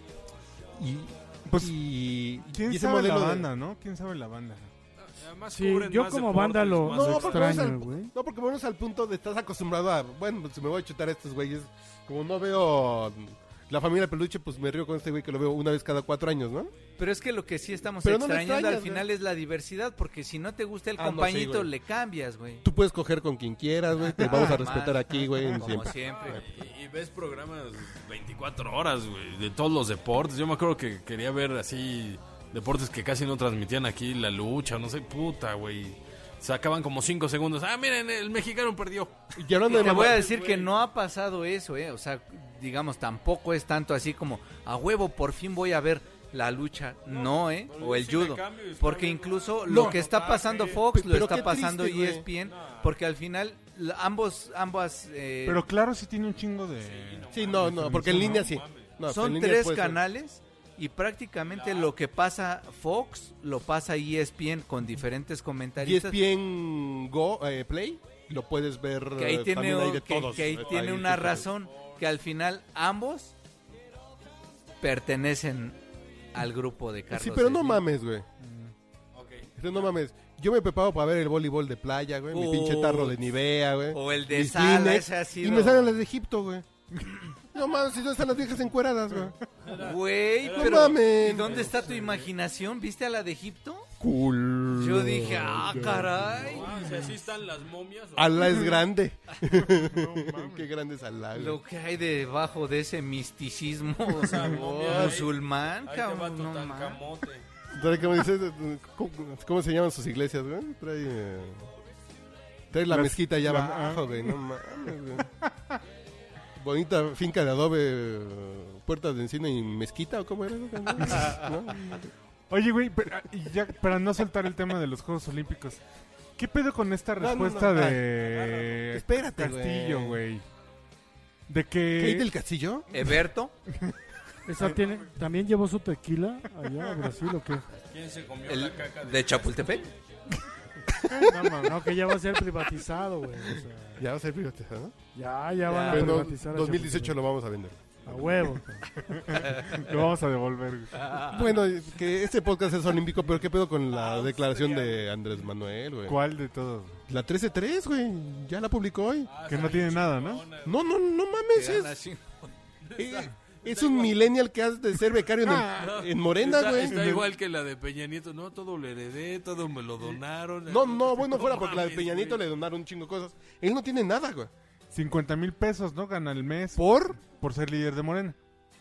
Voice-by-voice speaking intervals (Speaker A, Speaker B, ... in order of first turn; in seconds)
Speaker A: 0.8-3.5, 6.9-16.7, 18.0-19.1, 21.0-21.7, 22.6-26.5, 39.4-40.2, 49.7-50.0, 50.9-52.3, 57.3-60.0, 65.8-71.5, 77.1-78.3, 79.6-86.7, 87.5-89.4, 90.5-91.8, 94.0-96.6, 98.2-101.6, 104.9-105.2, 107.7-111.7, 112.7-115.3, 116.6-122.1, 127.2-128.1, 128.9-130.2, 132.0-132.9, 140.9-141.3, 144.0-144.9, 145.9-148.5, 151.2-156.2, 157.1-159.3, 160.7-161.9, 163.0-167.2, 170.7-174.5, 176.8-177.2
Speaker B: 1.5-1.8, 2.5-4.7, 24.2-24.6, 55.5-58.5, 78.4-78.7, 99.5-100.7, 112.9-115.8, 121.1-121.3, 122.5-125.8, 126.4-130.4, 131.5-132.3, 136.8-137.1, 141.1-141.8, 149.1-151.1, 156.1-157.0, 159.5-160.5, 165.1-166.1, 166.8-167.2, 174.9-178.4
Speaker C: 5.0-7.7, 26.1-40.7, 47.1-51.5, 52.4-52.9, 56.8-59.0, 61.5-61.9, 70.4-70.9, 71.6-72.0, 79.1-79.5, 89.6-92.3, 96.4-98.6, 104.1-107.5, 137.8-139.6, 153.9-155.1, 159.3-160.8, 162.8-164.2, 165.8-172.4
Speaker D: 5.5-8.1, 134.5-137.7, 141.3-144.0, 145.2-147.2, 148.1-148.9
Speaker E: 17.0-22.6, 24.1-26.5, 39.6-55.6, 59.1-66.2, 69.2-73.3, 74.8-75.8, 76.3-77.8, 82.3-83.2, 83.9-86.0, 89.7-93.9, 94.7-96.7, 101.3-107.0, 132.9-133.5, 138.5-139.9, 145.7-146.3, 149.5-149.8, 151.0-151.4, 161.5-162.5